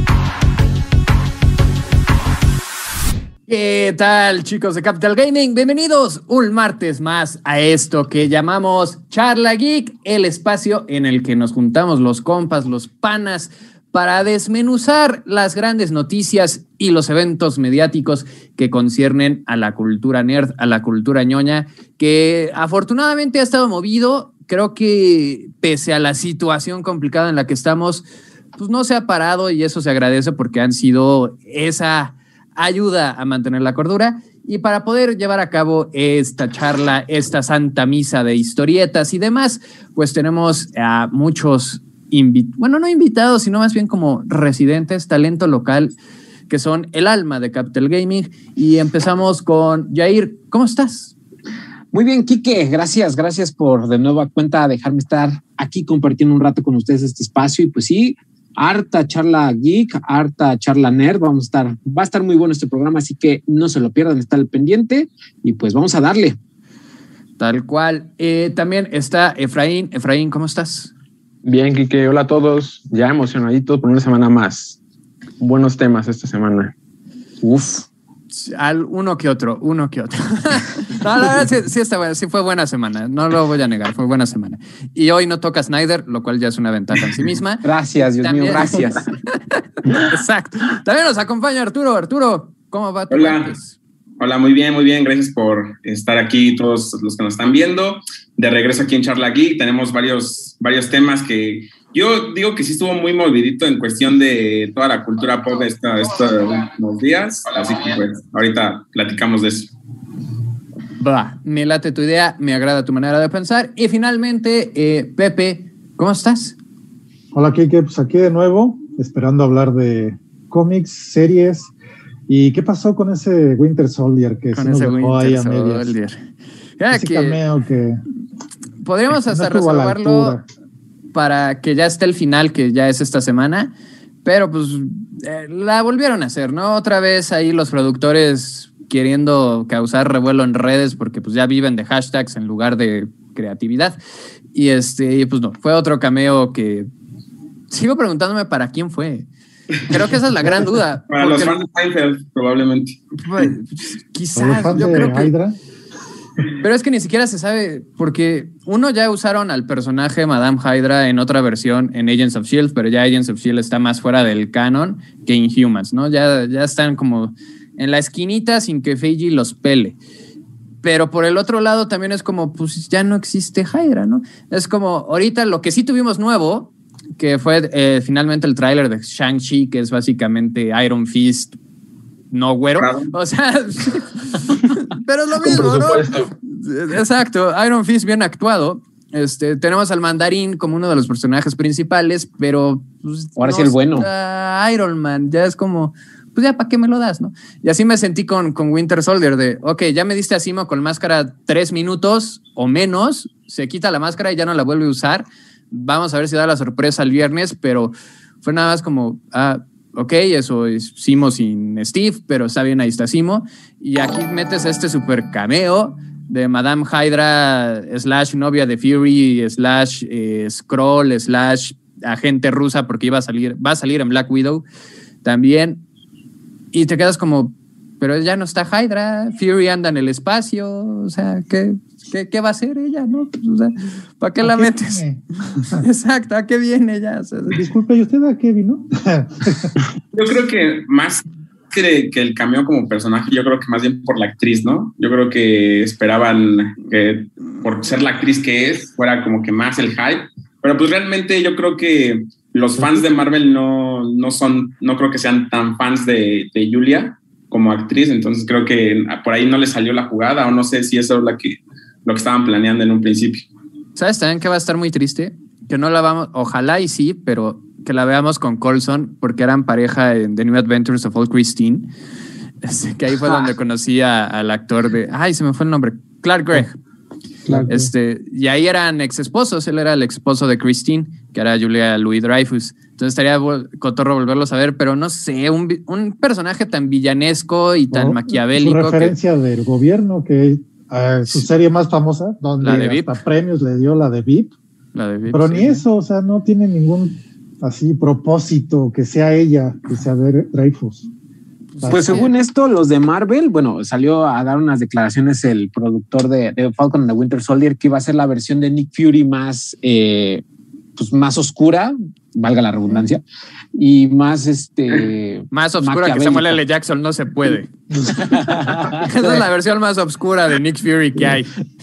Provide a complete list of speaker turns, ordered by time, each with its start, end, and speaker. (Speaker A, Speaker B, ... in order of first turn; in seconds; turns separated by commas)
Speaker A: 3.5-28.0, Speaker A: 28.6-45.9, Speaker A: 46.5-51.1, Speaker B: 51.9-66.4, Speaker A: 67.4-70.9, Speaker C: 71.4-74.8, Speaker C: 75.4-76.7, Speaker B: 77.4-77.9, Speaker A: 78.3-93.8, Speaker B: 87.6-89.0, Speaker D: 93.1-93.5, Speaker D: 94.2-109.7, Speaker A: 111.0-116.5, Speaker E: 117.3-121.7, Speaker E: 122.3-125.9, Speaker A: 124.5-126.2, Speaker A: 126.8-127.4, Speaker E: 126.9-128.0, Speaker A: 128.8-130.4, Speaker E: 129.3-130.4, Speaker A: 131.1-133.7, Speaker A: 134.2-144.0, Speaker A: 144.5-146.9, Speaker A: 147.7-149.3, Speaker A: 149.8-151.6, Speaker D: 151.1-153.0, Speaker A: 153.2-155.3, Speaker E: 154.3-155.6, Speaker A: 156.6-169.9, Speaker A: 170.8-181.6, Speaker A: 182.3-224.6, Speaker D: 182.8-183.1, Speaker C: 185.4-186.3, Speaker B: 193.4-194.1, Speaker A: 225.2-225.8, Speaker A: 226.7-237.6, Speaker E: 234.4-235.2, Speaker E: 237.5-239.7, Speaker D: 240.1-263.4, Speaker A: 263.9-271.9, Speaker A: 272.6-276.8, Speaker E: 277.4-277.9, Speaker A: 277.6-289.1, Speaker E: 287.9-294.5, Speaker A: 292.6-293.1, Speaker A: 294.9-295.8, Speaker E: 295.3-301.1, Speaker A: 301.7-302.3, Speaker E: 301.8-302.3, Speaker B: 301.9-310.4, Speaker B: 311.0-313.2, Speaker B: 313.7-316.6, Speaker A: 315.5-317.7, Speaker E: 317.9-318.4, Speaker B: 318.1-319.4, Speaker A: 318.7-321.5